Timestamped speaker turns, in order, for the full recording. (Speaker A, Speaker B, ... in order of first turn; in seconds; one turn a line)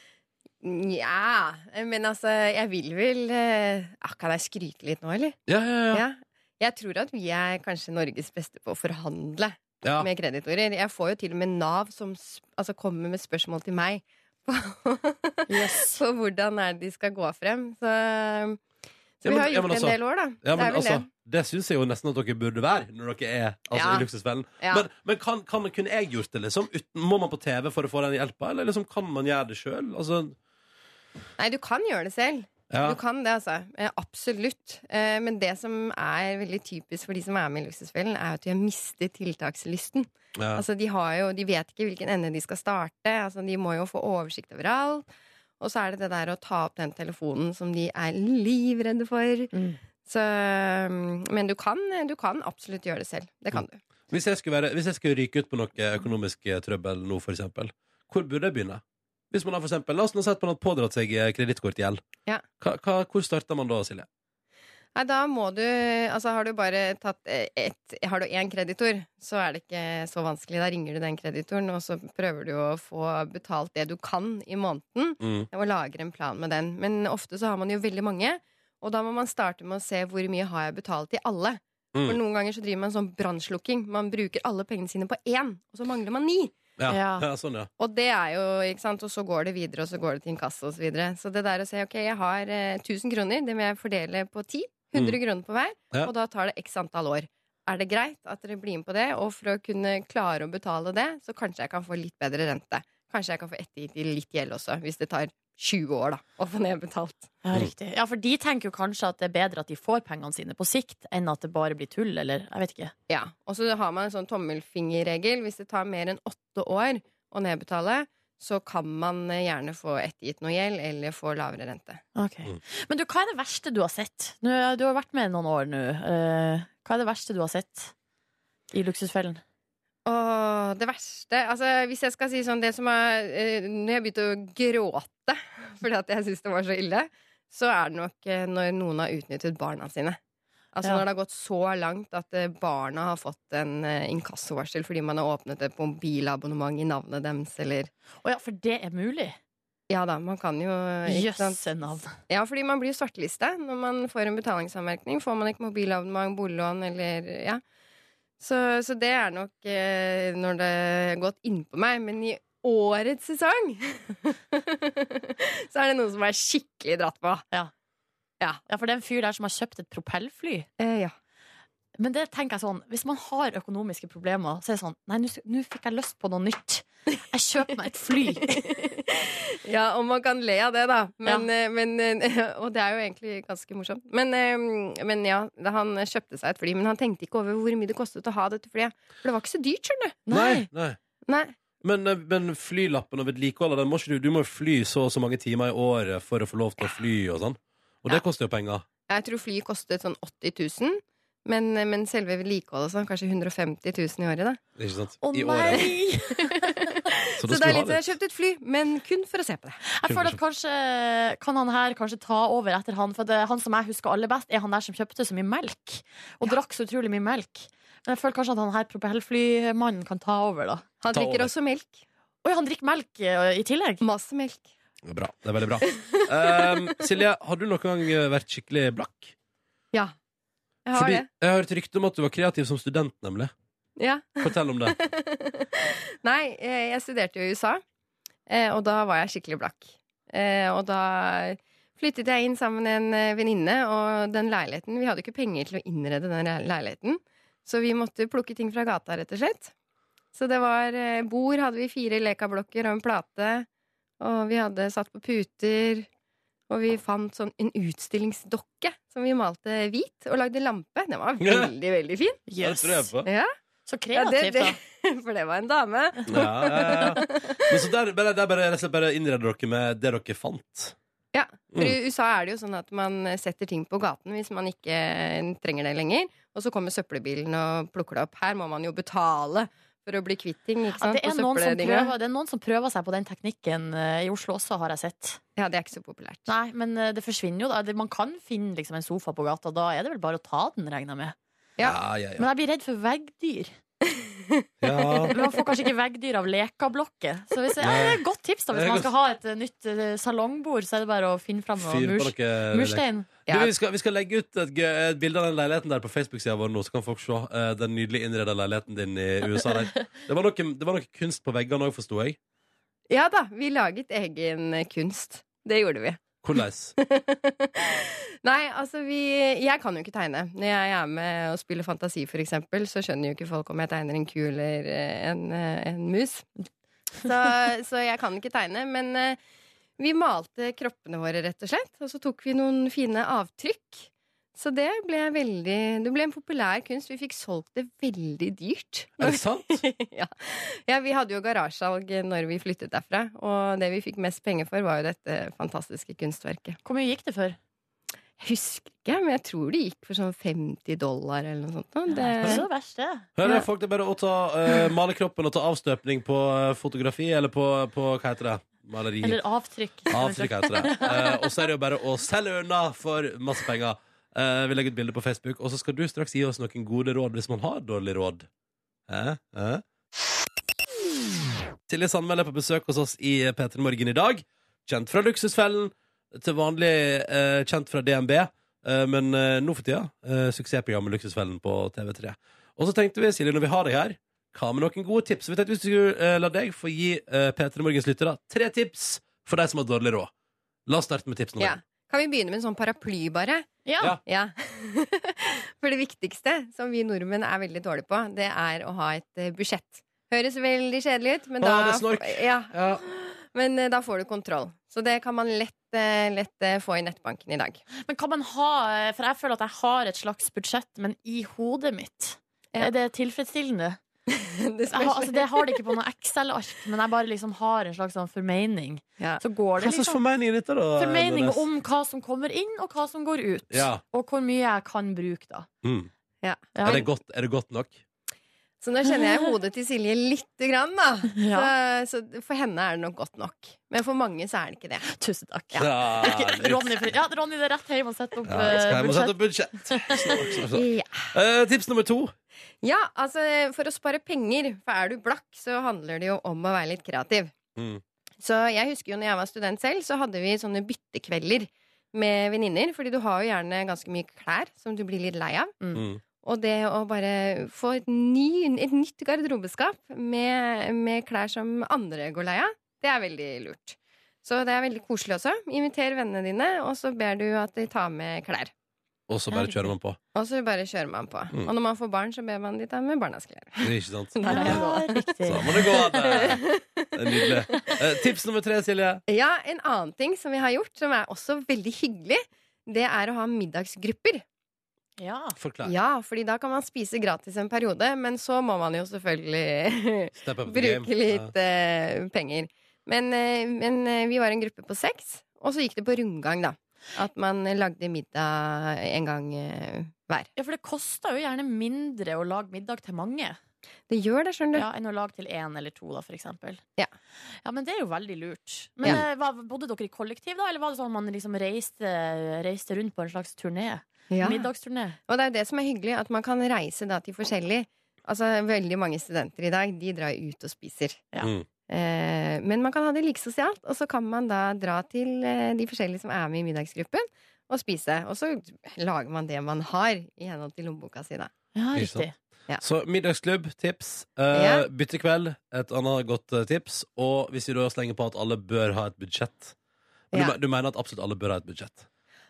Speaker A: 0.6-5.4
Speaker B: 5.5-6.0
Speaker A: 5.9-18.6
Speaker C: 15.5-16.0
Speaker A: 19.2-21.1
Speaker B: 19.2-30.4
Speaker A: 23.7-24.1
Speaker A: 24.6-24.9
Speaker A: 31.4-45.1
Speaker B: 32.7-33.0
Speaker B: 40.4-40.6
Speaker A: 45.6-53.8
Speaker C: 49.5-49.8
Speaker B: 54.1-62.0
Speaker B: 62.6-64.1
Speaker A: 64.9-86.6
Speaker B: 75.2-75.5
Speaker B: 86.8-87.7
Speaker C: 86.9-87.3
Speaker A: 87.8-107.3
Speaker C: 107.4-112.9
Speaker A: 113.1-122.0
Speaker C: 122.2-127.9
Speaker C: 128.7-129.4
Speaker A: 130.1-140.2
Speaker A: 140.7-147.9
Speaker C: 148.2-149.4
Speaker A: 149.9-151.6
Speaker C: 151.1-152.2
Speaker A: 152.3-157.6
Speaker A: 158.4-167.4
Speaker C: 168.7-170.7
Speaker A: 170.8-171.1
Speaker C: 172.0-178.6
Speaker A: 178.3-190.2
Speaker C: 190.2-190.7
Speaker B: 190.3-191.0
Speaker A: 191.3-191.6
Speaker B: 191.8-198.9
Speaker A: 199.1-204.6
Speaker B: 204.8-205.8
Speaker C: 205.2-206.9
Speaker A: 205.7-209.8
Speaker B: 207.4-208.1
Speaker C: 209.8-220.9
Speaker B: 210.1-210.4
Speaker A: 221.0-222.0
Speaker B: 221.1-221.5
Speaker C: 222.4-224.0
Speaker A: 224.0-224.7
Speaker B: 225.0-229.3
Speaker A: 225.9-226.6
Speaker A: 230.8-231.3
Speaker B: 230.9-233.5
Speaker A: 234.0-237.8
Speaker B: 234.4-234.9
Speaker A: 238.5-249.7
Speaker A: 250.3-253.7
Speaker A: 254.2-256.1
Speaker A: 256.7-262.4
Speaker B: 261.4-261.7
Speaker C: 262.5-263.1
Speaker B: 262.6-263.3
Speaker A: 263.2-263.5
Speaker C: 263.9-264.8
Speaker A: 264.1-267.8
Speaker B: 266.3-270.9
Speaker A: 271.3-282.1
Speaker C: 281.0-285.4
Speaker A: 285.6-286.5
Speaker C: 286.5-291.3
Speaker B: 291.8-292.5
Speaker C: 292.4-293.7
Speaker A: 294.1-295.6
Speaker B: 294.8-295.3
Speaker C: 295.3-303.3
Speaker B: 297.8-298.2
Speaker B: 298.7-299.1
Speaker B: 301.8-312.4
Speaker A: 303.5-303.7
Speaker A: 313.1-316.2
Speaker B: 316.4-316.9
Speaker A: 317.0-326.5
Speaker A: 327.2-329.4
Speaker A: 330.0-346.8
Speaker B: 339.2-339.8
Speaker C: 346.8-347.6
Speaker A: 348.4-352.6
Speaker C: 352.1-353.3
Speaker B: 353.4-359.4
Speaker C: 359.2-361.4
Speaker B: 360.1-368.5
Speaker B: 369.1-369.8
Speaker B: 371.9-390.3
Speaker B: 390.9-391.8
Speaker A: 391.6-393.7
Speaker C: 393.8-394.2
Speaker A: 394.2-402.7
Speaker B: 401.6-403.0
Speaker A: 403.5-407.8
Speaker C: 408.0-414.0
Speaker A: 414.3-415.9
Speaker C: 414.9-420.2
Speaker B: 419.8-421.6
Speaker C: 421.0-425.7
Speaker B: 423.7-424.0
Speaker B: 425.8-426.1
Speaker A: 426.4-427.1
Speaker C: 426.7-427.1
Speaker B: 426.8-428.0
Speaker A: 428.8-435.1
Speaker C: 431.3-431.7
Speaker C: 435.1-440.4
Speaker B: 435.8-437.1
Speaker B: 438.5-442.3
Speaker A: 440.7-441.3
Speaker A: 442.8-447.5
Speaker B: 447.8-448.0
Speaker A: 448.4-455.8
Speaker B: 455.9-456.2
Speaker A: 456.3-468.7
Speaker B: 469.3-470.2
Speaker C: 469.5-469.9
Speaker A: 470.3-478.0
Speaker B: 473.8-474.8
Speaker C: 474.4-476.4
Speaker B: 475.4-476.6
Speaker B: 477.1-479.2
Speaker A: 479.3-484.4
Speaker C: 485.2-485.6
Speaker B: 485.6-485.9
Speaker A: 485.8-500.5
Speaker B: 490.4-491.5
Speaker C: 500.6-503.6
Speaker A: 504.1-504.9
Speaker C: 504.7-506.8
Speaker C: 507.6-515.2
Speaker A: 514.3-514.7
Speaker A: 515.3-521.2
Speaker B: 521.4-521.7
Speaker A: 521.9-531.5
Speaker C: 531.8-532.3
Speaker B: 531.9-532.3
Speaker B: 532.8-539.7
Speaker A: 534.5-534.9
Speaker B: 540.3-542.0